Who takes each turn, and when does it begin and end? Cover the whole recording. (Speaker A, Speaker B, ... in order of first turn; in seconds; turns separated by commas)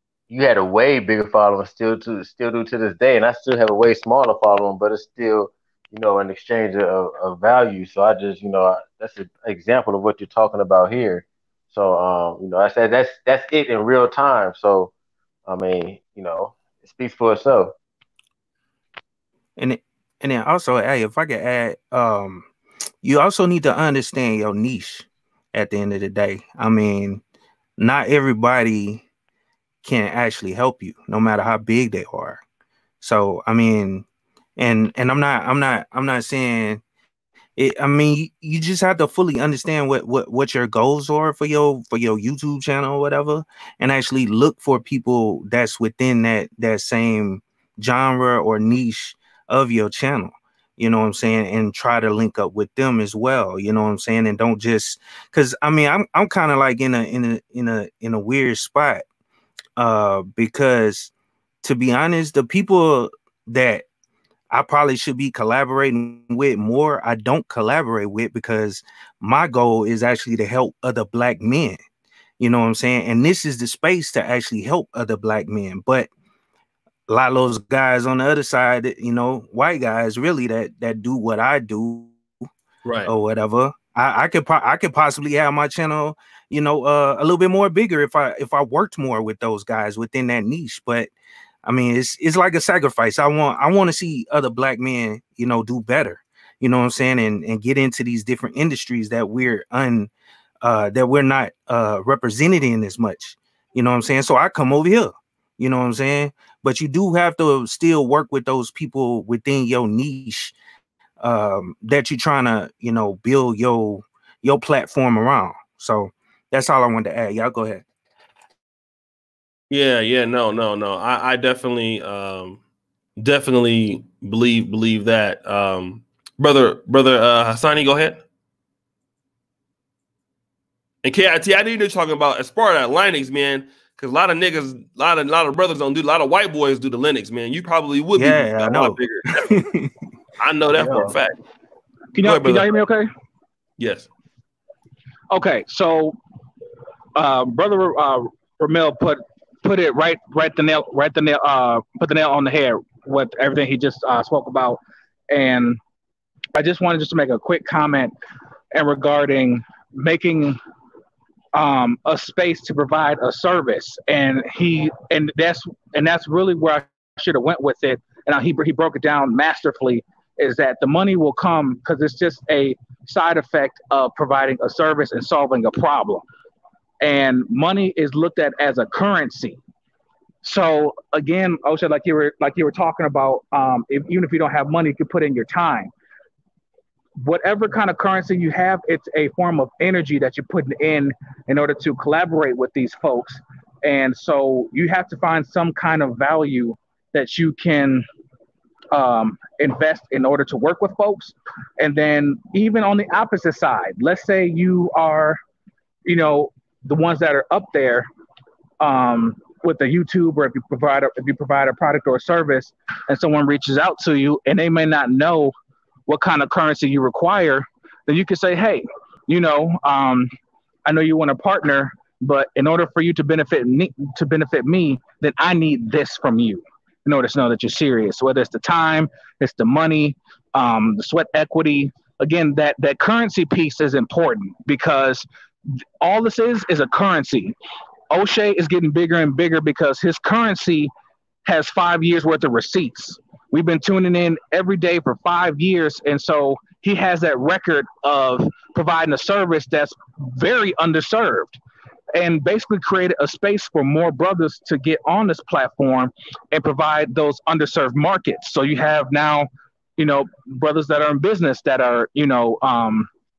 Speaker A: 0.3-14.9, Speaker A: 15.5-17.7, Speaker B: 19.6-22.5, Speaker B: 23.0-27.2, Speaker B: 27.8-29.0, Speaker B: 29.8-32.4, Speaker B: 33.0-34.0, Speaker B: 34.6-36.8, Speaker B: 37.6-59.0, Speaker B: 59.8-61.1, Speaker B: 61.6-63.9, Speaker B: 64.5-71.8, Speaker B: 72.4-76.1, Speaker B: 77.1-82.2, Speaker C: 82.8-83.1, Speaker B: 83.1-91.1, Speaker B: 91.6-100.1, Speaker B: 100.6-110.5, Speaker B: 111.2-117.8, Speaker C: 119.7-122.6, Speaker C: 123.2-128.2, Speaker C: 131.0-139.5, Speaker B: 138.2-139.9, Speaker C: 140.4-141.3, Speaker D: 142.1-143.1, Speaker C: 142.2-142.7, Speaker C: 143.8-144.1, Speaker D: 145.3-146.2, Speaker D: 147.2-155.8, Speaker D: 156.6-158.1, Speaker D: 158.7-160.6, Speaker D: 161.5-176.2, Speaker D: 177.0-179.6, Speaker D: 180.4-185.9, Speaker D: 187.2-198.0, Speaker D: 198.9-205.4, Speaker D: 206.1-208.1, Speaker D: 208.8-215.5, Speaker D: 216.1-220.3, Speaker D: 220.8-235.3, Speaker D: 236.0-237.6, Speaker D: 238.1-240.9, Speaker D: 241.5-251.6, Speaker D: 252.2-263.1